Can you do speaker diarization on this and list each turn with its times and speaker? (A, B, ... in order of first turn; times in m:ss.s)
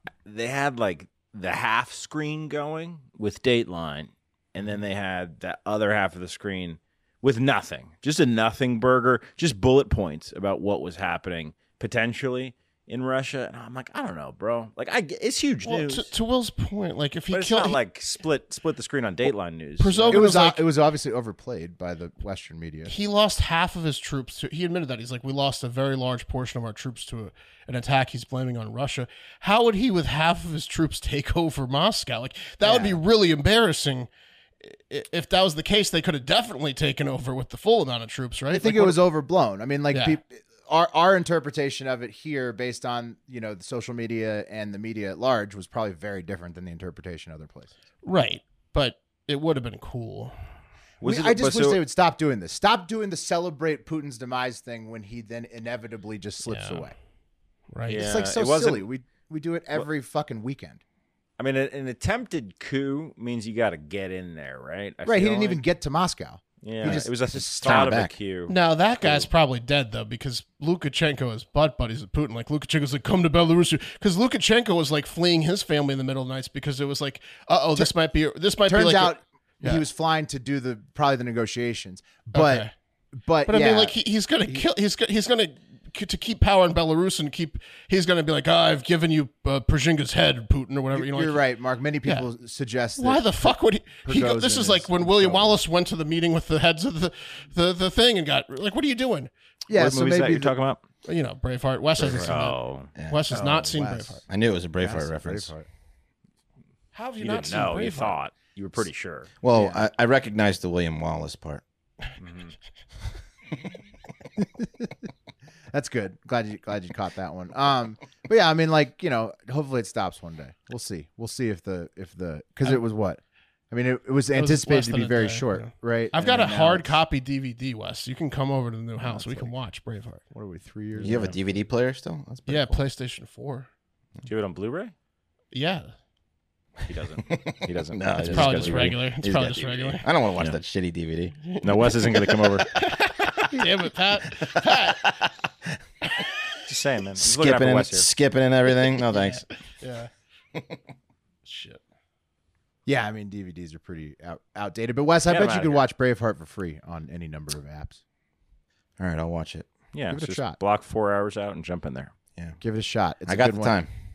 0:00.2-0:16.1 A
0:15.7-0:17.8 B
0:17.3-0:20.2 A
0:19.8-0:20.6 B
0:20.1-0:22.9 C
0:22.9-0:34.1 B
0:32.6-0:33.0 C
0:34.6-0:39.0 B
0:38.5-0:47.7 C
0:39.9-0:40.2 B
0:48.0-0:50.4 B
0:51.0-0:51.8 A
0:51.0-0:57.0 C
0:56.5-0:56.8 B
0:57.7-0:58.0 B
0:57.9-0:58.9 A
0:57.9-1:00.8 C
1:01.4-1:05.6 A
1:05.0-1:08.0 C
1:06.6-1:09.3 A
1:06.8-1:08.1 D
1:08.5-1:19.8 B
1:18.7-1:22.7 C
1:22.3-1:22.7 B
1:23.2-1:24.7 C
1:23.5-1:31.4 B
1:30.9-1:33.5 C
1:33.0-1:39.3 B
1:34.0-1:35.6 C
1:39.7-1:40.5 C
1:39.7-1:40.8 A
1:41.1-1:44.2 B
1:42.0-1:42.3 C
1:42.2-1:42.9 A
1:43.0-1:43.3 D
1:43.3-1:44.3 C
1:44.3-1:45.5 D
1:44.8-1:45.7 C
1:46.9-1:48.2 B
1:47.2-1:49.3 A
1:49.4-1:51.6 D
1:49.5-1:49.8 C
1:52.2-1:52.5 A
1:54.4-1:55.1 C
1:55.7-2:07.0 C
2:04.3-2:10.2 B
2:09.0-2:09.5 C
2:10.3-2:11.6 C
2:11.0-2:12.8 D
2:12.5-2:13.7 B
2:14.2-2:14.9 A
2:15.5-2:15.9 B
2:16.9-2:19.0 A
2:17.3-2:22.2 D
2:18.2-2:20.1 B
2:21.6-2:22.7 A
2:22.7-2:25.1 B
2:24.4-2:25.2 D
2:26.7-2:28.1 A
2:27.2-2:29.4 D
2:29.1-2:30.1 B
2:31.4-2:31.8 B
2:32.9-2:38.0 C
2:35.3-2:35.8 A
2:39.0-2:39.7 D
2:39.9-2:42.1 A
2:40.1-2:40.6 C
2:42.6-2:43.8 C
2:43.3-2:43.9 D